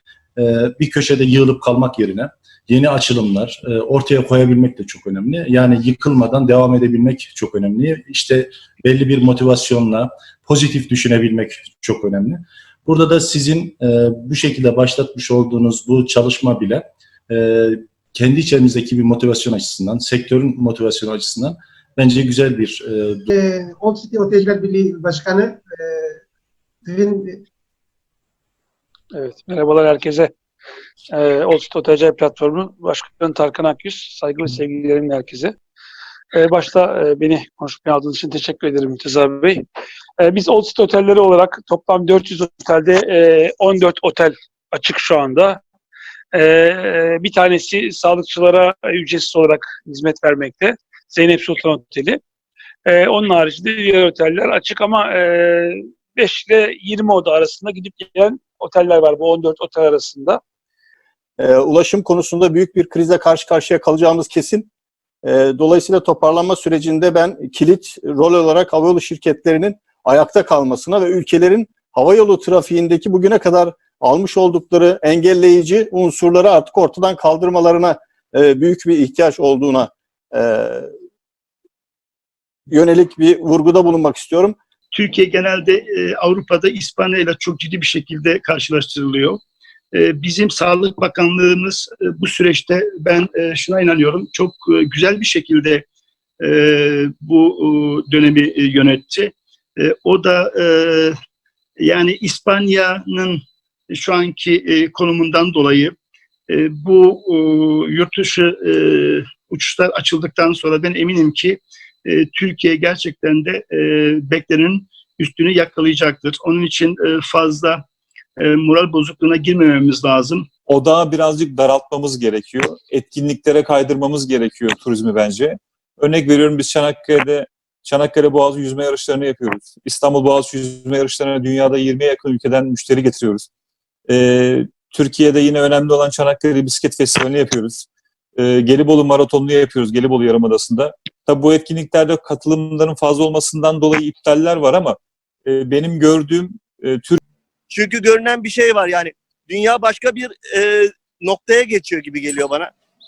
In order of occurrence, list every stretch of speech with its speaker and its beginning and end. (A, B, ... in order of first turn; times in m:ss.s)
0:00.4-0:23.3 A
0:23.3-0:26.2 B
0:26.8-0:27.4 B
0:29.1-0:30.3 C
0:31.1-0:35.5 C
0:36.3-0:39.6 C
0:40.2-0:45.6 C
0:46.3-0:52.2 C
0:52.9-1:00.4 C
1:01.4-1:04.6 D
1:05.2-1:20.8 D
1:22.7-1:24.5 D
1:24.9-1:29.4 E
1:30.0-1:35.8 E
1:37.3-1:39.3 E
1:40.0-1:41.1 E
1:41.9-1:43.4 E
1:44.0-1:45.9 E
1:46.8-1:48.8 E
1:49.5-1:51.6 E
1:52.4-1:53.7 E
1:54.3-1:57.8 E
1:58.5-2:00.4 E
2:00.7-2:13.4 F
2:14.1-2:17.8 F
2:18.4-2:27.2 F
2:27.7-2:32.7 G